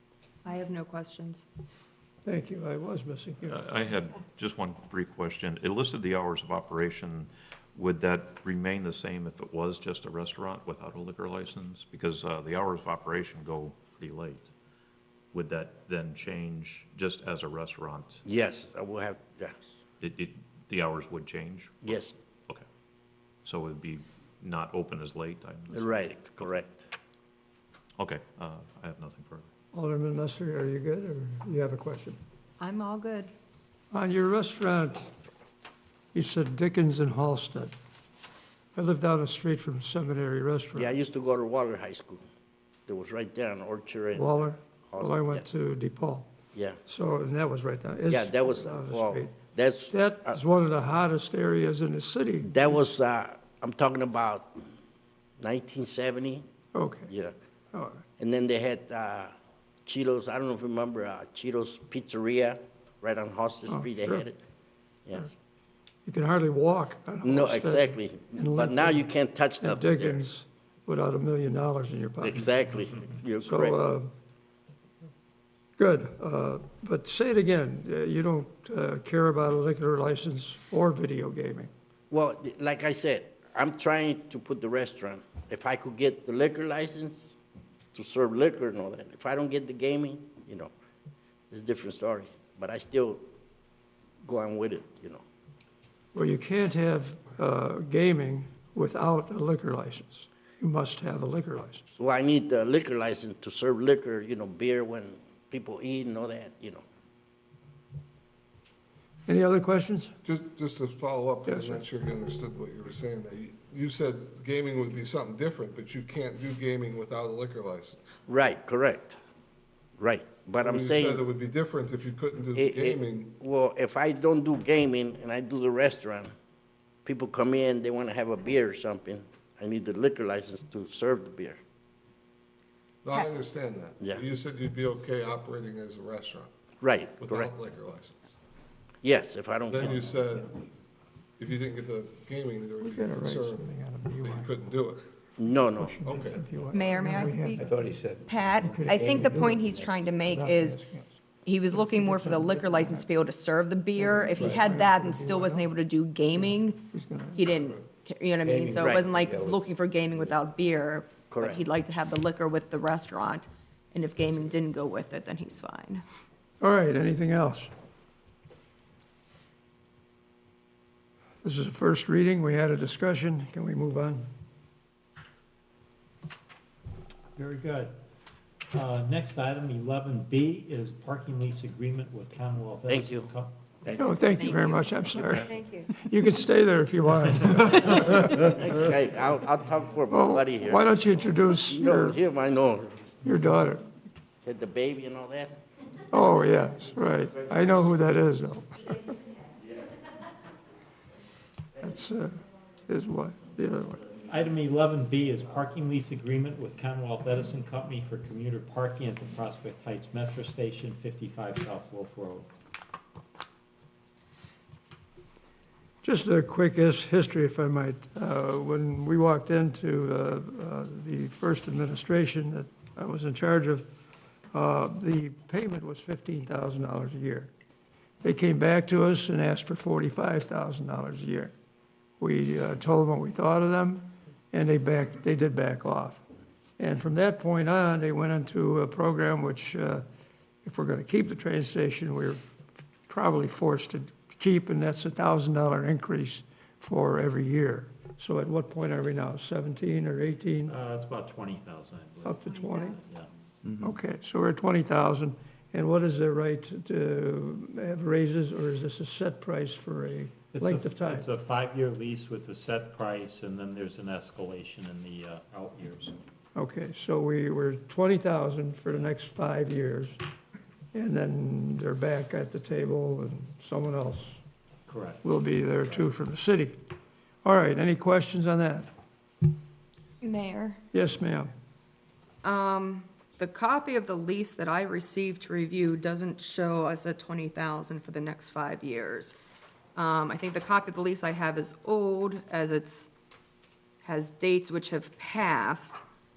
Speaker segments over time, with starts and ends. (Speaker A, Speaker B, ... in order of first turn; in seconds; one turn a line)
Speaker A: 0.5-1.4
Speaker B: 2.2-3.6
Speaker C: 3.5-14.5
Speaker C: 15.3-18.2
Speaker D: 18.2-19.8
Speaker C: 20.0-22.6
Speaker D: 21.8-22.1
Speaker C: 23.4-26.5
Speaker D: 25.7-26.9
Speaker C: 28.0-29.5
Speaker B: 29.7-32.2
Speaker A: 32.6-33.3
Speaker B: 33.9-35.1
Speaker B: 36.1-37.7
Speaker B: 38.8-40.9
Speaker D: 40.8-42.2
Speaker D: 42.9-45.5
Speaker B: 44.1-46.3
Speaker B: 46.9-49.4
Speaker D: 48.1-50.4
Speaker B: 49.9-52.8
Speaker D: 52.5-54.6
Speaker D: 55.4-56.5
Speaker B: 56.7-57.1
Speaker D: 57.1-57.3
Speaker B: 57.7-58.0
Speaker D: 58.2-59.3
Speaker D: 59.9-64.4
Speaker B: 63.7-64.2
Speaker D: 65.1-65.3
Speaker B: 66.1-69.0
Speaker D: 67.2-70.2
Speaker B: 69.6-72.5
Speaker D: 72.2-73.8
Speaker B: 73.5-74.1
Speaker B: 75.8-81.7
Speaker D: 82.1-87.4
Speaker D: 87.9-90.7
Speaker D: 91.5-93.2
Speaker D: 94.2-95.2
Speaker B: 96.1-101.9
Speaker D: 102.0-106.8
Speaker B: 109.3-110.1
Speaker E: 110.2-118.2
Speaker B: 111.5-111.8
Speaker D: 118.3-119.2
Speaker D: 120.0-121.2
Speaker E: 120.6-123.3
Speaker D: 122.5-126.3
Speaker D: 127.0-131.6
Speaker E: 133.0-136.5
Speaker D: 136.8-137.5
Speaker E: 137.2-138.3
Speaker D: 139.0-140.0
Speaker E: 139.7-140.6
Speaker E: 141.4-145.0
Speaker B: 142.8-144.6
Speaker D: 145.4-146.1
Speaker B: 145.7-147.7
Speaker E: 146.1-146.5
Speaker A: 146.7-147.7
Speaker F: 147.5-150.0
Speaker A: 148.3-150.8
Speaker B: 148.6-153.1
Speaker A: 151.4-166.0
Speaker B: 154.0-155.7
Speaker E: 154.3-154.6
Speaker B: 156.4-157.5
Speaker F: 158.4-160.4
Speaker D: 158.8-159.1
Speaker D: 161.3-161.7
Speaker B: 166.6-167.7
Speaker B: 171.4-174.3
Speaker G: 177.4-177.9
Speaker G: 178.7-183.6
Speaker D: 182.9-183.3
Speaker F: 183.8-184.2
Speaker B: 184.0-188.6
Speaker A: 184.2-185.9
Speaker D: 188.4-190.9
Speaker B: 190.1-192.2
Speaker D: 191.7-193.0
Speaker B: 193.2-193.8
Speaker D: 194.4-195.6
Speaker B: 196.1-199.1
Speaker B: 201.8-204.0
Speaker G: 204.3-212.5
Speaker B: 216.0-223.9
Speaker B: 224.5-227.5
Speaker B: 228.2-231.5
Speaker B: 232.2-236.2
Speaker B: 236.8-240.1
Speaker B: 240.6-242.4
Speaker B: 243.1-250.7
Speaker G: 250.7-253.3
Speaker B: 252.2-253.0
Speaker B: 253.8-261.3
Speaker G: 260.5-266.2
Speaker B: 266.6-270.2
Speaker B: 270.9-274.4
Speaker G: 274.9-275.2
Speaker B: 275.2-276.8
Speaker B: 277.4-278.9
Speaker A: 280.2-280.8
Speaker B: 280.9-281.5
Speaker A: 282.4-289.4
Speaker A: 290.0-293.1
Speaker A: 294.0-296.0